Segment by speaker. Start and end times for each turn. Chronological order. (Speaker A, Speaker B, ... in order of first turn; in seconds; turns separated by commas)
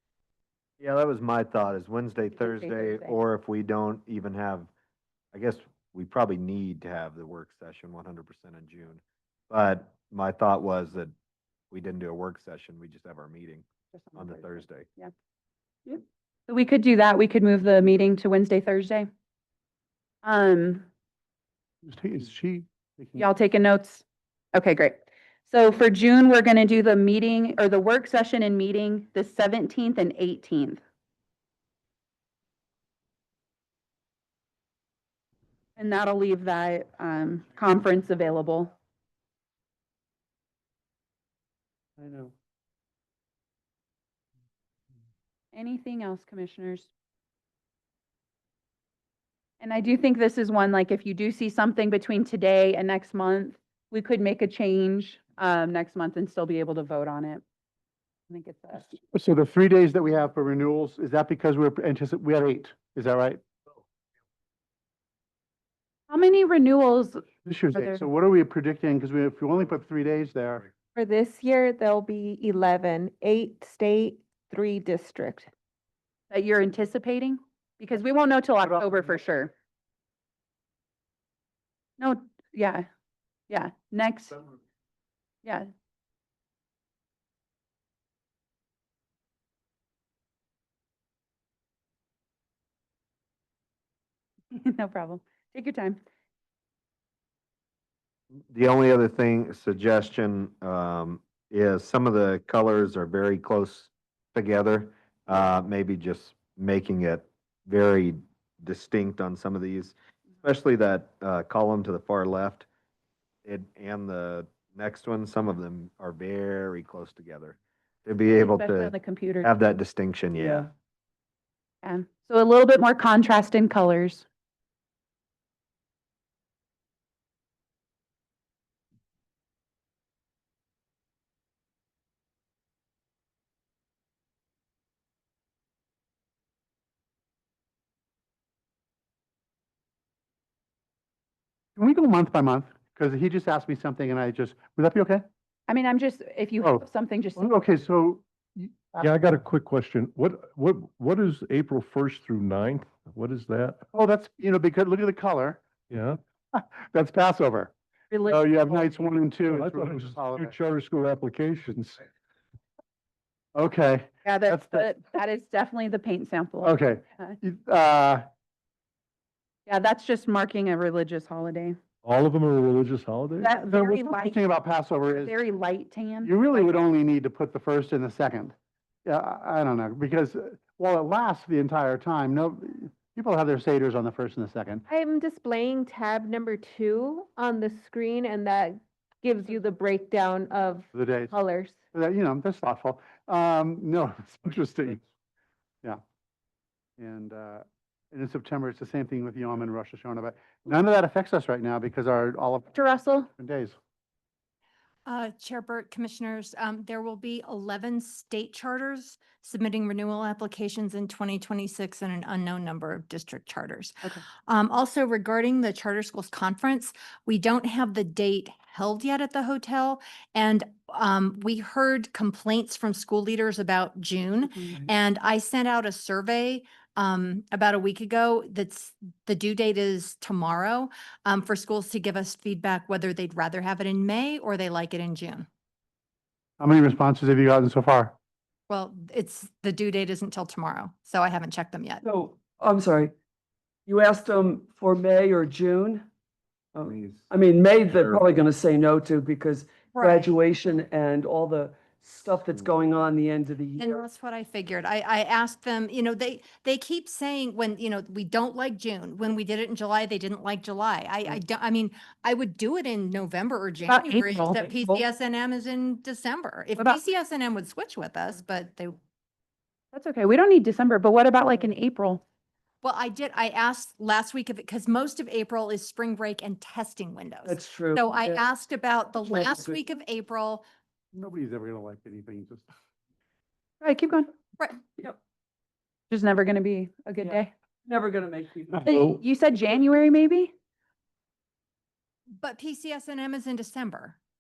Speaker A: 0.8-4.7, Speaker B: 2.4-3.1, Speaker A: 5.3-11.1, Speaker A: 11.7-14.9, Speaker B: 13.9-15.1, Speaker B: 15.9-19.1, Speaker B: 20.2-20.9, Speaker C: 21.8-23.3, Speaker B: 23.2-24.0, Speaker B: 24.5-30.8, Speaker B: 35.8-38.7, Speaker D: 42.0-42.3, Speaker B: 45.5-46.9, Speaker B: 49.6-57.4, Speaker B: 58.3-58.9, Speaker C: 58.9-63.4, Speaker B: 66.1-68.0, Speaker C: 67.5-70.7, Speaker E: 71.0-75.5, Speaker B: 76.3-79.5, Speaker B: 82.0-82.9, Speaker B: 83.5-84.4, Speaker B: 94.5-96.0, Speaker A: 98.5-112.7, Speaker A: 113.5-120.7, Speaker B: 118.4-119.5, Speaker D: 120.3-120.7, Speaker B: 121.8-124.2, Speaker C: 141.8-145.2, Speaker B: 145.7-147.5, Speaker C: 147.4-149.1, Speaker F: 149.0-153.8, Speaker C: 153.9-155.6, Speaker F: 155.9-156.2, Speaker C: 156.5-157.7, Speaker B: 158.1-159.0, Speaker C: 158.3-160.5, Speaker F: 159.5-162.0, Speaker C: 163.6-164.9, Speaker B: 164.2-167.4, Speaker C: 166.6-168.3, Speaker B: 169.7-171.8, Speaker F: 172.0-173.6, Speaker B: 173.4-174.4, Speaker C: 173.7-175.4, Speaker B: 175.2-176.3, Speaker C: 176.2-178.5, Speaker C: 179.1-184.8, Speaker E: 184.9-191.8, Speaker C: 190.9-191.3, Speaker C: 191.9-195.0, Speaker C: 197.0-202.8, Speaker B: 202.7-203.3, Speaker C: 203.4-203.8, Speaker G: 205.1-213.9, Speaker G: 214.5-235.5, Speaker C: 236.6-238.2, Speaker G: 238.7-242.0, Speaker D: 242.0-243.1, Speaker D: 243.9-246.1, Speaker D: 246.7-254.0, Speaker G: 249.9-250.3, Speaker G: 253.8-269.0, Speaker B: 263.9-264.6, Speaker B: 269.9-272.2, Speaker G: 272.8-280.6, Speaker D: 277.4-278.4, Speaker D: 279.3-279.7, Speaker C: 281.1-282.7, Speaker B: 283.8-284.3, Speaker B: 286.1-287.5, Speaker D: 287.2-289.2, Speaker B: 288.9-290.5, Speaker G: 292.4-294.2